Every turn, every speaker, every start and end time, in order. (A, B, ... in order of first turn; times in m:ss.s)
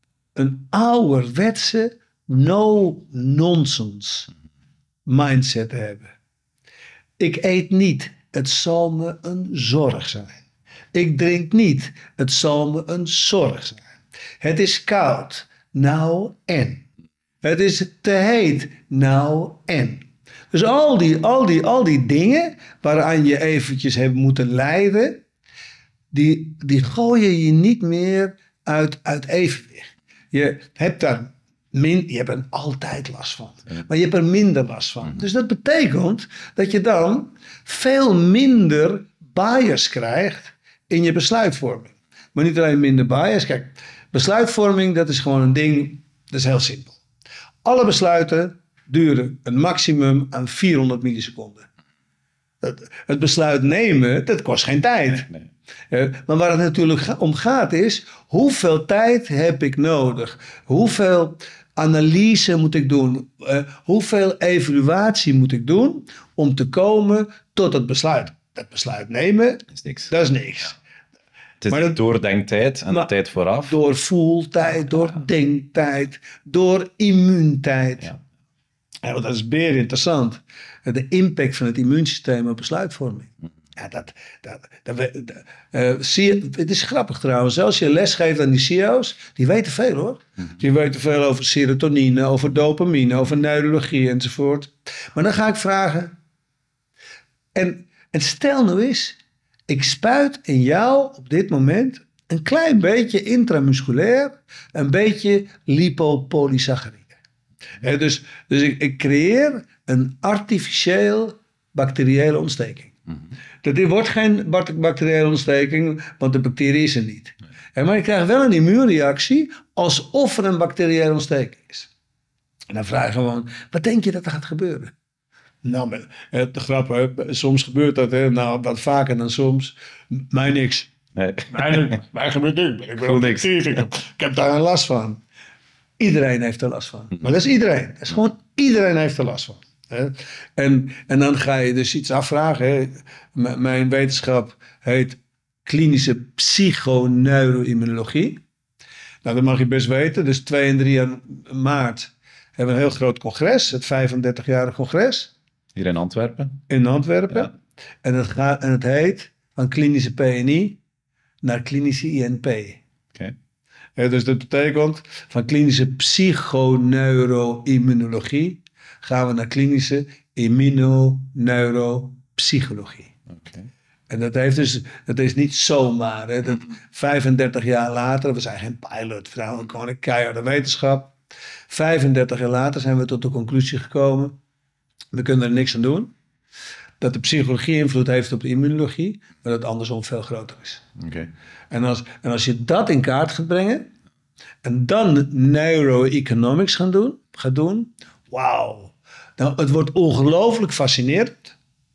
0:00.3-0:04.3 A
0:05.0-0:06.1 A
0:07.2-0:10.4 A
0:10.9-0:13.9 A
0:14.4-0:16.8 A
0:17.4-0:25.2 A
0:26.1-0:47.0 A
0:47.6-0:51.6 A
0:52.6-0:55.3 A
0:55.9-1:10.8 A
1:09.7-1:10.1 B
1:11.6-1:13.8 B
1:11.7-1:12.0 A
1:13.6-1:18.1 A
1:19.0-1:36.1 A
1:37.5-1:47.1 A
1:47.8-1:52.9 A
1:53.6-2:01.9 A
2:02.7-2:04.9 A
2:05.6-2:10.9 A
2:11.2-2:12.0 B
2:11.5-2:15.2 A
2:13.0-2:13.5 B
2:16.0-2:28.4 A
2:29.2-2:35.3 A
2:35.8-2:36.6 B
2:36.7-2:37.5 A
2:38.0-2:40.8 A
2:41.4-2:42.8 A
2:44.0-2:53.1 A
2:53.3-2:53.7 B
2:54.1-3:01.1 A
3:01.7-3:04.3 A
3:05.1-3:06.1 A
3:07.0-3:10.8 A
3:11.0-3:11.3 B
3:11.7-3:13.9 A
3:14.6-3:21.6 A